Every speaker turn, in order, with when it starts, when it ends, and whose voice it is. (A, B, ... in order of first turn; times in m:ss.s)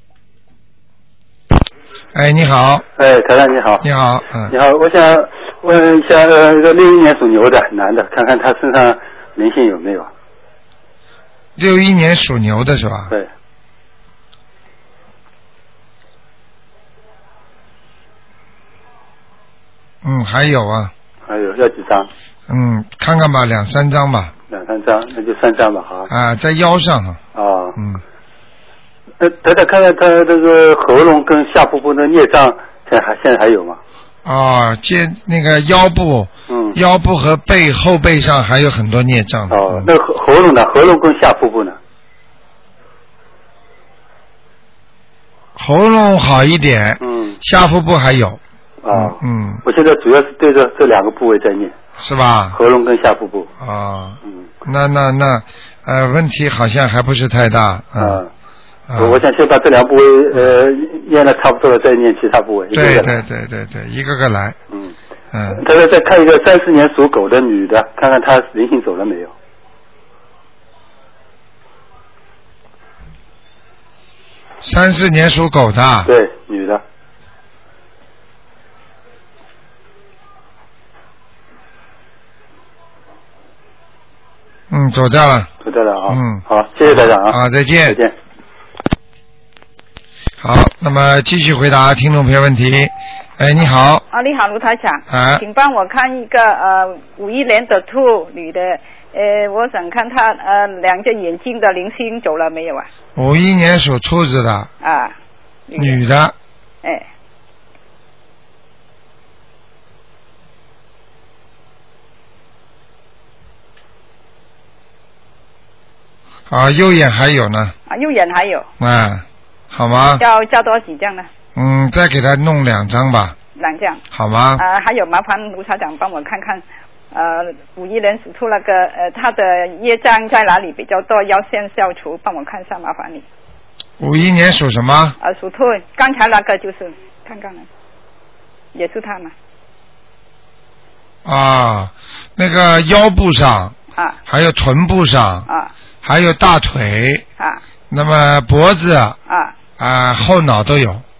0:02.2-0:02.9 A
0:03.0-0:03.9 B
0:03.8-0:04.6 A
0:04.5-0:10.1 B
0:11.6-0:13.1 A
0:20.0-0:20.9 A
0:21.3-0:22.1 B
0:22.5-0:24.3 A
0:24.5-0:26.1 B
0:26.1-0:27.2 A
0:27.4-0:27.8 B
0:27.8-0:28.0 A
0:29.2-0:33.8 B
0:34.2-0:39.9 A
0:36.5-0:36.8 B
0:39.5-0:41.8 B
0:45.6-0:48.4 A
0:47.0-0:47.4 B
0:48.8-0:51.7 B
0:48.9-0:49.6 A
0:52.0-0:52.6 A
0:52.5-0:53.5 B
0:53.6-0:58.2 A
0:58.0-0:58.3 B
0:58.9-0:59.2 A
0:59.0-1:03.1 B
1:02.7-1:04.6 A
1:05.3-1:05.6 A
1:05.5-1:09.3 B
1:14.6-1:16.1 A
1:16.1-1:16.8 B
1:24.7-1:25.5 A
1:25.6-1:28.1 B
1:26.1-1:28.0 A
1:30.4-1:34.0 A
1:34.1-1:42.9 C
1:35.1-1:35.4 A
1:43.2-1:44.7 A
1:44.8-1:45.2 C
1:45.7-1:46.0 C
1:45.8-1:46.3 A
1:56.5-1:57.8 A
1:57.9-1:58.7 C
1:58.8-2:00.2 A
2:00.2-2:01.3 C
2:01.6-2:03.4 A
2:03.6-2:04.0 C
2:04.1-2:04.6 A
2:04.6-2:13.3 C
2:14.0-2:15.2 A
2:15.2-2:17.7 C
2:18.7-2:19.3 C
2:21.2-2:23.8 A
2:24.3-2:25.5 A
2:26.0-2:27.2 A
2:27.9-2:29.2 A
2:29.3-2:29.6 C
2:29.8-2:31.0 A